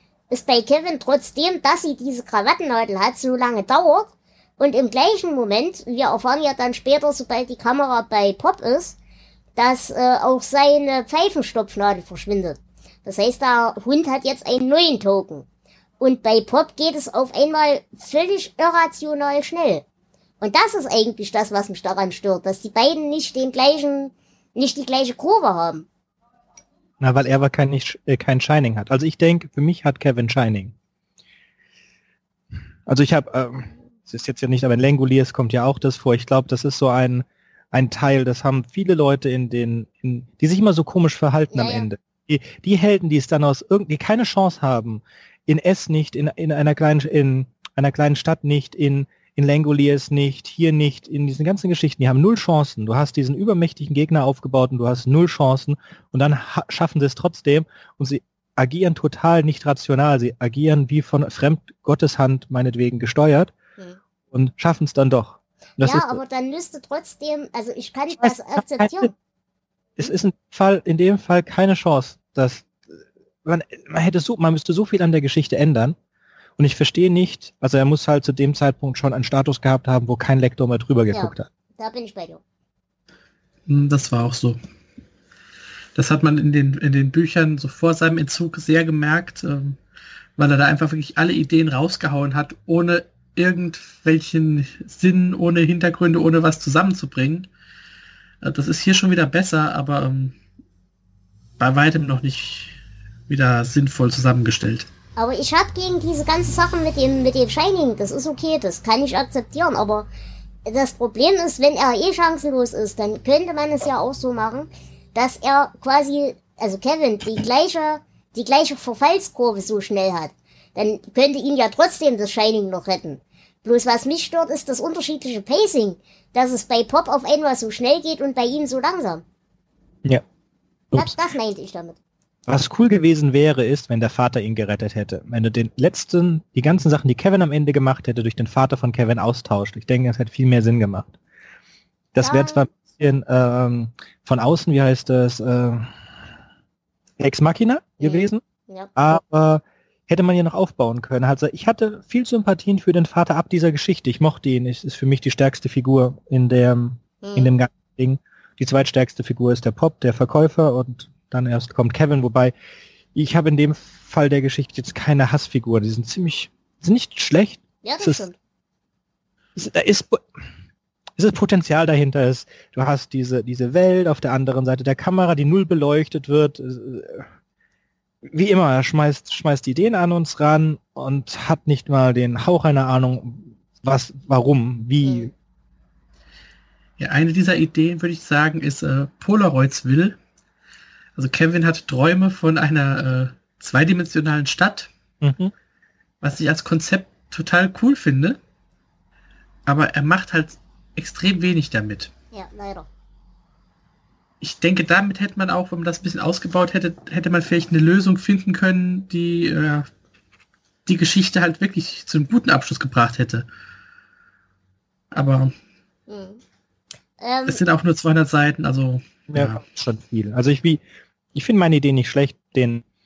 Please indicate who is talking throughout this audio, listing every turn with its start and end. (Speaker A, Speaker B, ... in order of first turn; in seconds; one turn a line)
Speaker A: 0.3-9.0
Speaker A: 9.6-15.4
Speaker A: 16.0-19.8
Speaker A: 20.4-25.9
Speaker B: 27.0-30.7
Speaker B: 32.9-63.5
Speaker A: 41.5-41.9
Speaker B: 64.3-66.2
Speaker A: 65.8-69.1
Speaker B: 68.2-69.1
Speaker B: 70.0-76.0
Speaker B: 76.6-81.5
Speaker A: 81.1-82.4
Speaker C: 83.7-84.6
Speaker C: 85.9-89.8
Speaker C: 90.3-97.5
Speaker C: 98.4-100.3
Speaker C: 101.6-104.9
Speaker A: 105.2-110.1
Speaker A: 110.7-129.2
Speaker A: 130.9-132.0
Speaker B: 132.5-141.1
Speaker B: 142.1-145.9
Speaker A: 142.2-142.7
Speaker B: 147.2-148.4
Speaker A: 148.0-148.9
Speaker B: 148.9-162.5
Speaker A: 157.2-157.5
Speaker B: 163.1-168.2
Speaker A: 167.8-168.3
Speaker B: 169.6-170.2
Speaker B: 171.2-177.2
Speaker B: 178.2-185.3
Speaker A: 185.0-185.3
Speaker C: 187.0-190.2
Speaker C: 191.2-194.9
Speaker B: 195.2-195.5
Speaker C: 196.2-198.4
Speaker C: 199.7-202.1
Speaker A: 202.3-202.9
Speaker C: 204.4-209.9
Speaker C: 210.8-213.4
Speaker C: 215.1-215.5
Speaker A: 216.1-216.4
Speaker A: 217.2-217.6
Speaker C: 217.5-219.6
Speaker B: 219.3-220.8
Speaker B: 221.3-222.8